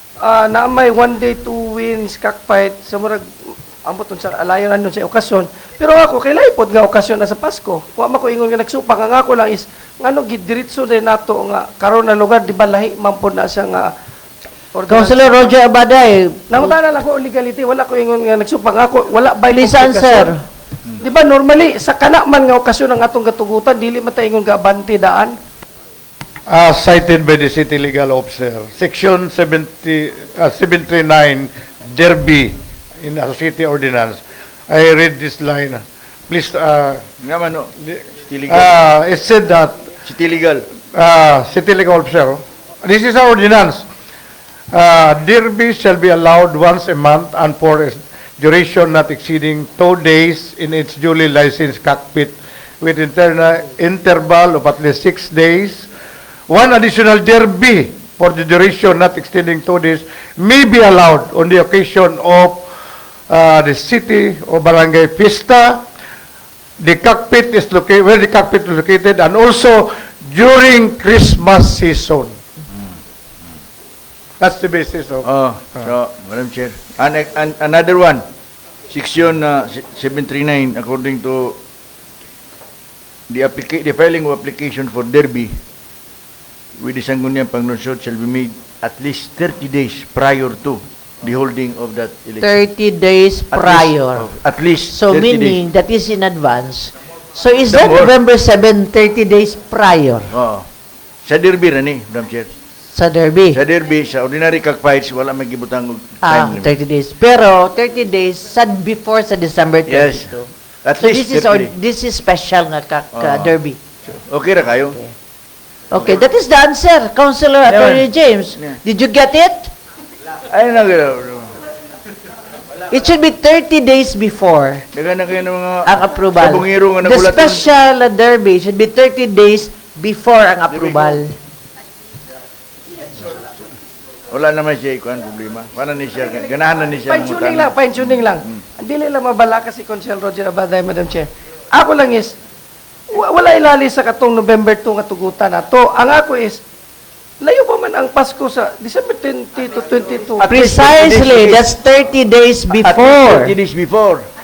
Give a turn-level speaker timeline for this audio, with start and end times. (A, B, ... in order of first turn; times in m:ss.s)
0:00.2-0:13.9 A
0:14.7-0:15.5 A
0:14.9-0:16.7 B
0:16.5-0:20.3 A
0:19.5-0:20.4 B
0:21.0-0:25.4 A
0:26.5-0:37.0 C
0:37.2-0:37.7 D
0:37.8-0:39.9 C
0:38.3-0:38.7 D
0:40.0-0:40.7 D
0:40.9-0:43.9 C
0:44.7-0:55.9 C
0:56.5-1:02.7 C
1:03.3-1:05.8 C
1:06.8-1:12.4 C
1:14.4-1:15.3 C
1:15.2-1:18.2 D
1:18.9-1:21.6 D
1:23.3-1:25.5 D
1:26.8-1:32.6 D
1:32.4-1:34.3 B
1:33.5-1:35.6 D
1:34.9-1:40.3 B
1:37.7-1:38.1 D
1:40.3-1:40.7 D
1:41.3-1:42.5 D
1:42.9-1:43.6 B
1:43.5-1:46.7 D
1:46.2-1:50.5 B
1:49.9-1:51.7 D
1:51.0-1:53.8 B
1:53.1-1:55.0 D
1:55.9-1:59.7 B
1:57.7-1:58.1 D
2:00.5-2:01.5 D
2:02.9-2:04.9 B
2:04.9-2:07.6 D
2:05.9-2:11.3 B
2:10.7-2:11.2 D
2:14.3-2:18.2 D
2:17.1-2:22.4 A
2:23.1-2:26.6 A
2:27.4-2:31.2 A
2:30.4-2:33.6 B
2:30.9-2:31.6 D
2:32.8-2:34.2 D